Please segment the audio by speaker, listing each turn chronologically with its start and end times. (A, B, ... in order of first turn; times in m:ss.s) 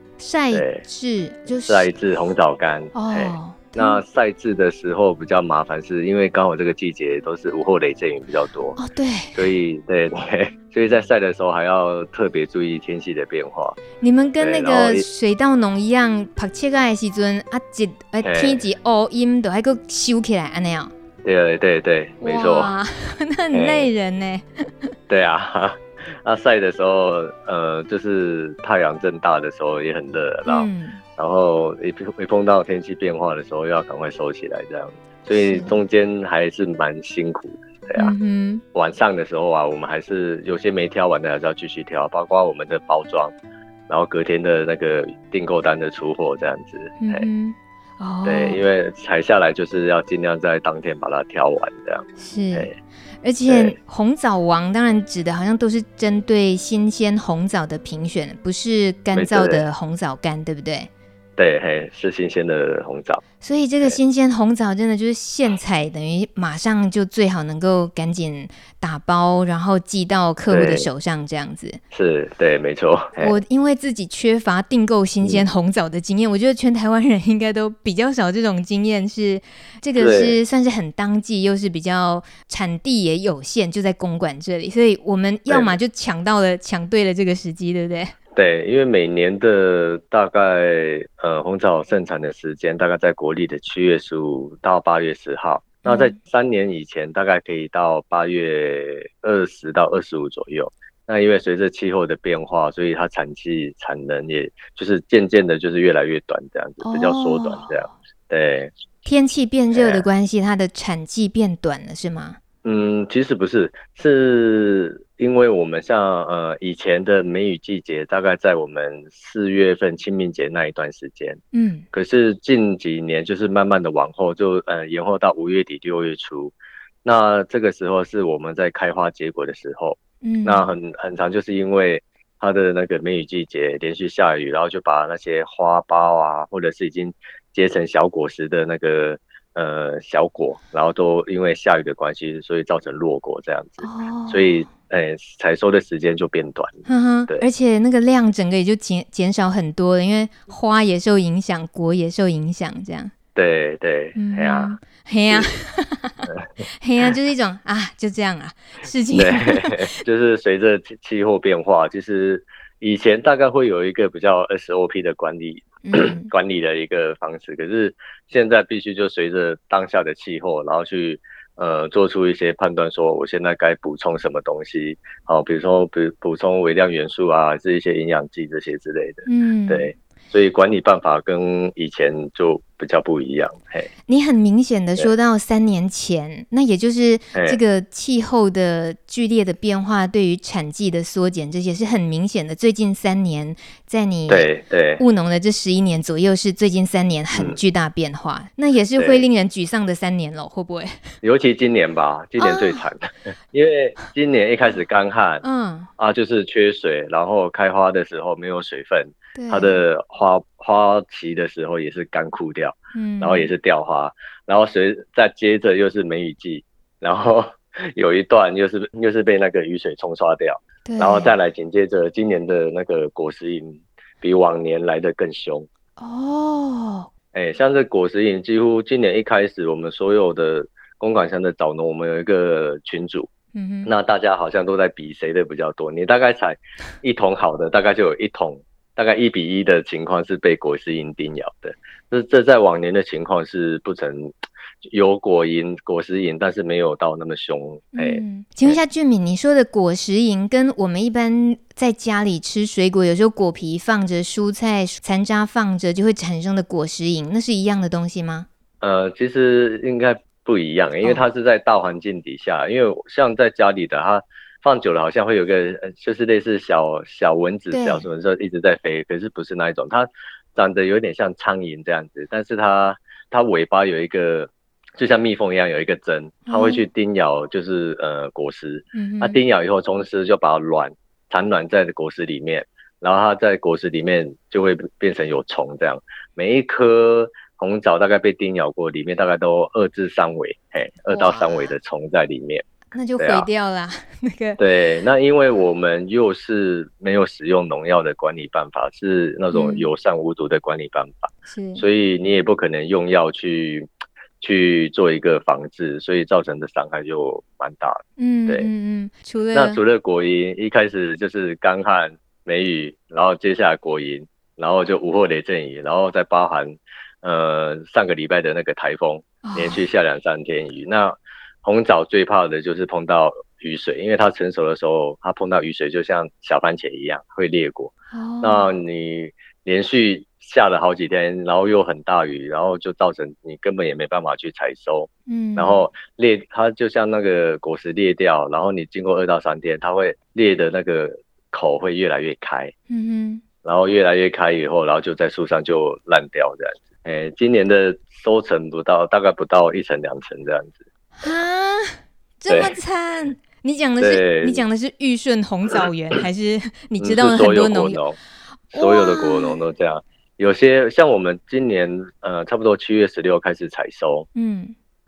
0:00.2-0:01.9 A
0:00.5-0:00.8 B
0:01.7-0:08.8 B
0:02.9-0:04.0 A
0:08.8-0:09.4 A
0:09.3-0:13.8 B
0:14.0-0:20.9 A
0:14.4-0:15.0 B
0:18.2-0:18.6 B
0:21.2-0:22.7 B
0:22.2-0:24.9 A
0:23.5-0:23.9 B
0:25.1-0:38.1 B
0:30.5-0:31.0 A
0:35.3-0:35.8 A
0:38.0-0:38.6 A
0:38.7-0:43.3 B
0:43.9-0:47.3 B
0:47.0-0:48.6 A
0:48.2-0:52.7 B
0:52.2-0:52.7 A
0:53.2-1:00.9 A
0:53.5-0:53.8 B
0:59.1-0:59.6 B
1:01.4-1:03.2 B
1:03.4-1:11.8 A
1:10.5-1:10.9 B
1:11.9-1:13.4 B
1:13.2-1:28.1 A
1:20.0-1:20.4 B
1:25.5-1:25.8 B
1:28.3-1:48.7 B
1:35.8-1:36.1 A
1:46.8-1:47.9 A
1:49.0-1:52.4 A
1:49.7-1:50.0 B
1:52.6-2:01.4 B
2:01.5-2:01.8 A
2:01.9-2:27.4 B
2:10.2-2:10.7 A
2:23.8-2:24.6 A
2:26.9-2:33.1 A
2:33.3-2:34.7 B
2:34.2-2:36.3 A
2:36.8-2:39.8 A
2:39.1-3:03.9 B
2:45.8-2:46.3 A
2:59.2-2:59.9 A
3:04.1-3:14.5 A
3:14.3-3:15.0 B
3:15.0-3:21.0 A
3:17.3-3:17.6 B
3:19.0-3:19.2 B
3:21.2-3:25.4 B
3:22.4-3:22.8 A
3:25.4-3:25.9 A
3:26.0-3:45.7 B
3:29.4-3:29.8 A
3:32.9-3:33.5 A
3:40.8-3:41.3 A
3:46.0-3:47.1 A
3:47.3-3:53.3 B
3:53.5-3:53.9 A
3:53.8-4:04.3 B
4:04.8-4:08.8 B
4:07.9-4:18.5 A
4:18.8-4:52.6 B
4:27.7-4:28.0 A
4:36.5-4:36.8 A
4:38.9-4:39.4 A
4:51.1-4:51.7 A
4:52.9-4:54.6 A
4:53.2-4:53.5 B
4:54.6-5:03.9 B
4:59.5-4:59.9 A
5:01.5-5:01.8 A
5:04.4-5:08.7 B
5:08.2-5:09.8 A
5:09.5-5:42.7 B
5:19.4-5:19.8 A
5:28.1-5:28.7 A
5:35.3-5:35.8 A
5:42.9-5:43.4 A
5:43.6-5:50.8 B
5:51.2-5:58.0 A
5:52.5-5:52.7 B
5:54.0-5:54.6 B
5:57.0-5:58.2 B
5:58.7-5:59.6 A
5:58.7-6:04.3 B
6:04.3-6:04.7 A